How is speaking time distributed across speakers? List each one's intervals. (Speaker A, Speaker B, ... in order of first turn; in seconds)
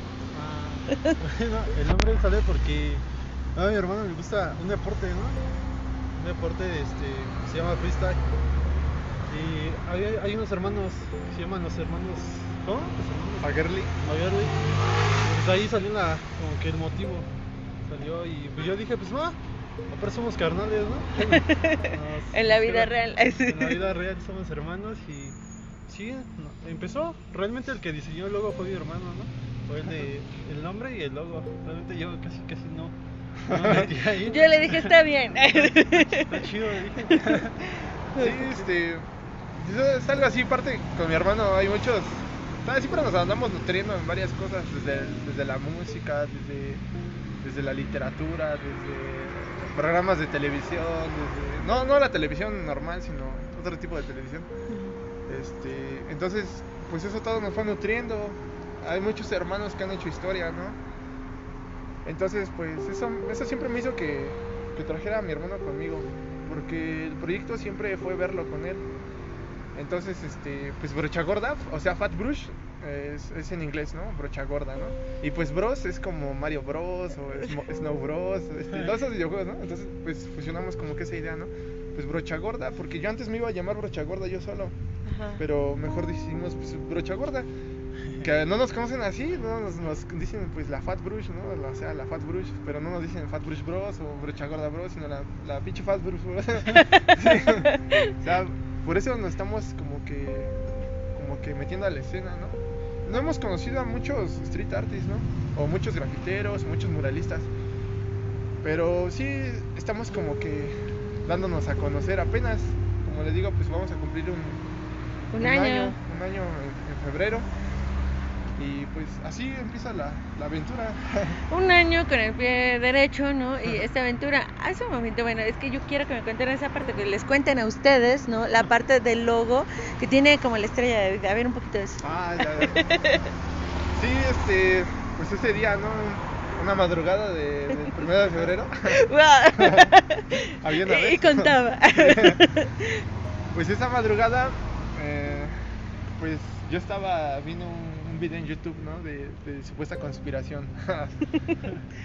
Speaker A: 0.3-5.4, 6.1-8.2, 9.2-14.6, 15.2-17.3, 17.9-19.4, 19.9-33.0, 33.5-37.6
Speaker B: 0.9-1.2, 21.2-23.8, 34.2-36.4, 37.1-38.6, 54.7-55.0, 85.0-85.4, 96.7-98.1, 115.3-116.0, 121.5-133.3, 137.8-138.1, 138.9-143.0
Speaker C: 13.4-13.9, 33.4-33.9, 38.1-39.0, 39.5-46.8, 47.4-54.5, 55.3-60.8, 62.0-68.8, 69.7-84.7, 85.4-87.5, 88.2-100.6, 101.1-107.5, 108.6-114.7, 115.4-117.5, 118.6-121.4, 132.0-132.8, 133.9-139.0, 139.6-139.9, 140.6-142.4, 143.5-145.6, 146.2-151.2